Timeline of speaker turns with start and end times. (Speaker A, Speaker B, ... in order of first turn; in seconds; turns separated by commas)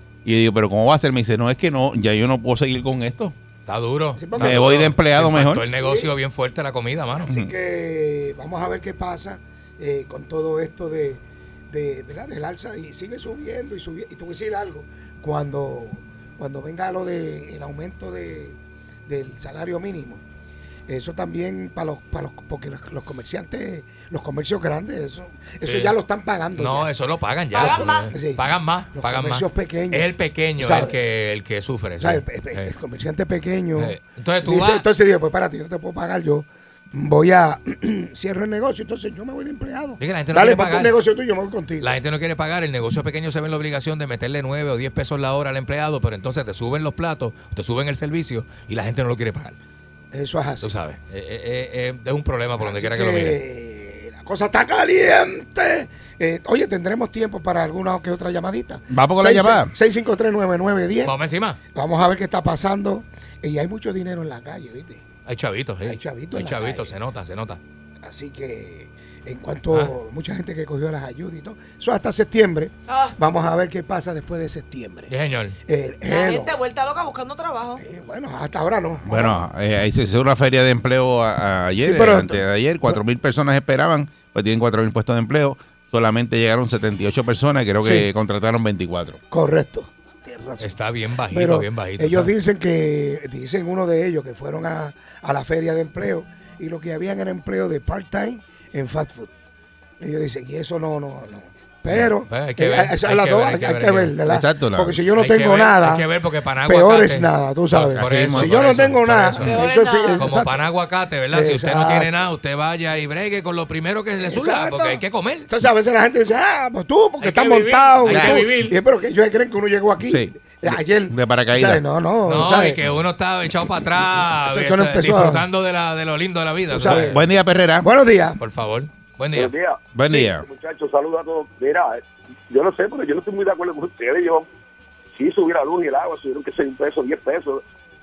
Speaker A: 0.2-3.3, Speaker B: 3.7-7.3, Speaker C: 4.2-4.9, Speaker A: 4.4-5.6, Speaker C: 5.7-6.1, Speaker C: 7.2-20.2, Speaker C: 20.9-26.9, Speaker B: 25.6-25.9, Speaker B: 26.5-32.7, Speaker D: 27.5-28.1, Speaker C: 27.6-30.9, Speaker C: 32.0-41.9, Speaker B: 33.8-34.9, Speaker B: 40.0-41.0, Speaker B: 41.8-49.6, Speaker C: 50.1-50.7, Speaker B: 50.6-53.4, Speaker C: 52.6-61.1, Speaker A: 58.9-59.7, Speaker B: 61.0-61.6, Speaker C: 61.7-65.0, Speaker B: 65.3-67.6, Speaker C: 65.8-66.9, Speaker C: 68.0-75.1, Speaker D: 72.9-73.1, Speaker B: 75.1-75.5, Speaker C: 75.7-76.5, Speaker D: 76.0-77.8, Speaker C: 77.8-79.4, Speaker A: 79.0-89.2, Speaker C: 81.8-83.0, Speaker C: 87.8-88.1, Speaker C: 89.3-90.7, Speaker B: 90.6-92.3, Speaker C: 91.3-99.3, Speaker C: 100.0-106.1, Speaker B: 102.3-104.1, Speaker A: 104.3-105.0, Speaker B: 105.2-109.6, Speaker C: 106.7-110.6, Speaker A: 107.8-108.8, Speaker D: 109.3-110.3, Speaker B: 110.2-115.5, Speaker C: 111.3-112.1, Speaker C: 114.2-122.8, Speaker B: 117.2-118.8, Speaker A: 118.1-118.5, Speaker A: 120.1-121.8, Speaker B: 122.3-127.2, Speaker C: 124.4-125.4, Speaker C: 126.7-127.2, Speaker A: 126.8-127.9, Speaker C: 127.8-128.4, Speaker B: 128.4-129.5, Speaker E: 129.3-134.5, Speaker A: 129.9-130.4, Speaker E: 135.1-137.6